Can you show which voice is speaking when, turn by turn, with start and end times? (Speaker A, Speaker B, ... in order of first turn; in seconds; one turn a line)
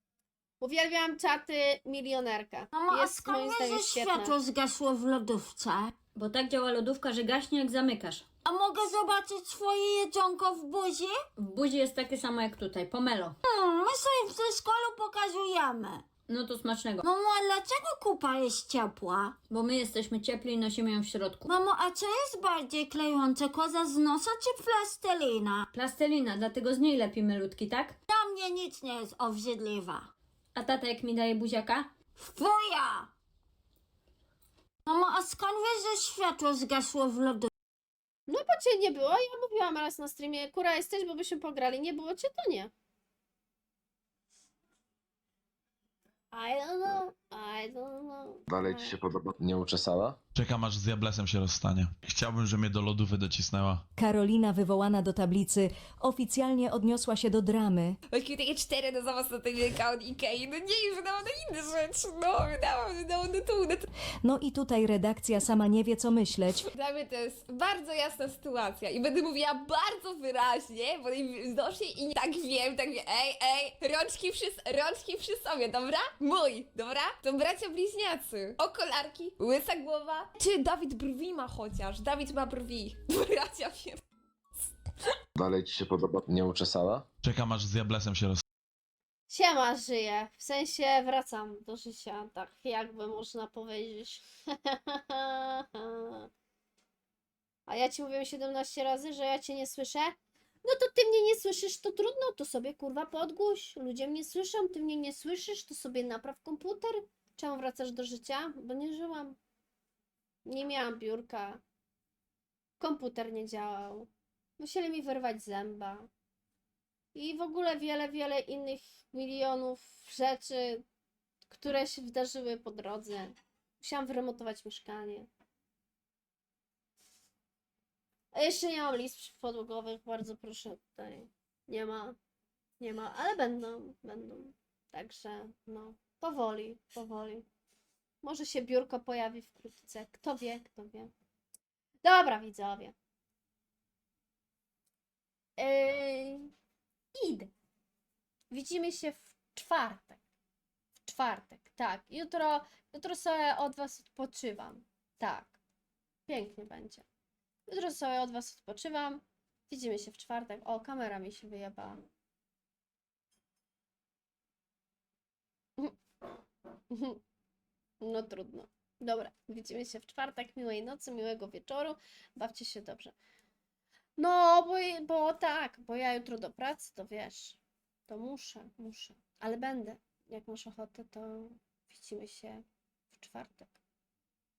Speaker A: 0.6-4.4
Speaker B: 2.7-4.6
Speaker C: 3.8-6.0
Speaker B: 6.1-8.6
Speaker C: 6.6-11.4
Speaker B: 11.4-13.7
Speaker C: 12.1-19.5
Speaker B: 16.2-17.3
Speaker B: 19.5-24.2
Speaker C: 21.4-25.8
Speaker B: 25.4-28.2
Speaker C: 28.1-30.1
Speaker B: 28.8-29.3
Speaker B: 30.5-32.3
Speaker C: 32.3-33.1
Speaker C: 34.9-37.3
Speaker B: 36.8-37.5
Speaker A: 38.3-42.7
Speaker A: 46.3-49.0
Speaker D: 48.5-50.2
Speaker E: 50.3-53.8
Speaker F: 54.0-58.0
Speaker G: 58.1-63.9
Speaker F: 64.2-66.7
Speaker G: 66.5-84.0
Speaker D: 85.3-87.0
Speaker E: 87.2-88.4
Speaker A: 89.3-96.3
Speaker A: 97.7-109.4
Speaker A: 110.5-111.6
Speaker A: 112.8-116.1
Speaker A: 117.1-120.8
Speaker A: 121.5-125.3
Speaker A: 128.3-132.2
Speaker A: 132.8-137.4
Speaker A: 138.2-141.1
Speaker A: 142.0-142.9
Speaker A: 145.6-146.5
Speaker A: 147.1-147.5
Speaker A: 148.5-150.2
Speaker A: 151.1-155.6
Speaker A: 156.3-157.0
Speaker A: 157.7-162.0
Speaker A: 166.9-167.2
Speaker A: 168.0-173.1
Speaker A: 174.2-183.8